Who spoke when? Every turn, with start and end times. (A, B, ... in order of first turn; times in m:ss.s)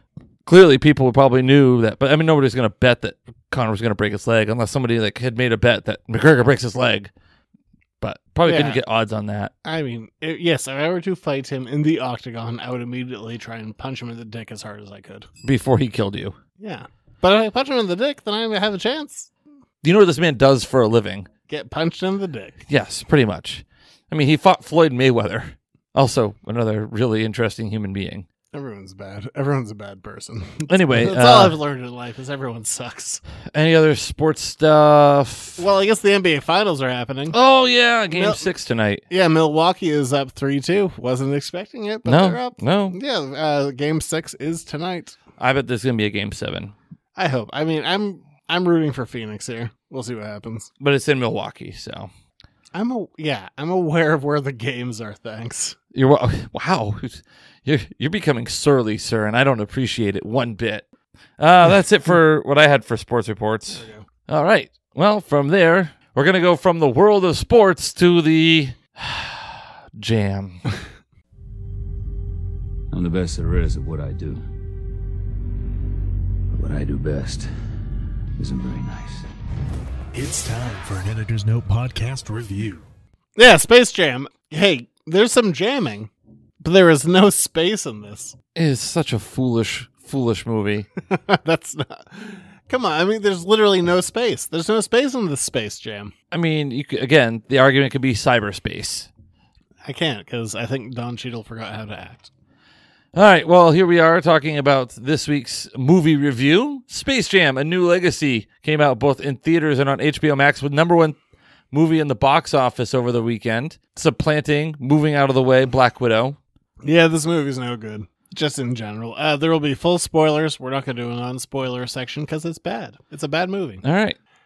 0:00.4-0:07.1 A
0:08.0-0:09.5 A
0:08.4-0:08.8 B
0:09.6-0:15.3 B
0:15.4-0:16.4 A
0:16.6-0:19.3 B
0:19.8-0:21.3 A
0:21.5-0:22.6 B
0:22.7-0:28.2 A
0:28.5-0:33.2 B
0:30.7-0:31.6 A
0:33.5-0:35.6 A
0:35.6-0:37.4 B
0:37.3-0:39.0 A
0:38.1-0:38.5 B
0:39.1-0:45.2 B
0:42.0-0:43.0 A
0:45.4-0:46.7 A
0:47.2-0:50.7 B
0:50.8-0:52.1 A
0:52.7-0:55.8 B
0:55.9-1:00.9 A
1:01.4-1:10.6 A
1:03.7-1:04.0 B
1:12.9-1:14.4 C
1:16.5-1:17.5 C
1:18.4-1:19.3 C
1:20.1-1:22.8 D
1:23.4-1:26.1 B
1:26.6-1:28.3 B
1:28.5-1:30.9 A
1:31.1-1:36.1 B
1:36.3-1:39.1 A
1:39.8-1:42.3 B
1:43.1-1:51.2 A
1:51.7-1:56.4 A
1:56.8-2:03.8 B
2:03.8-2:04.2 A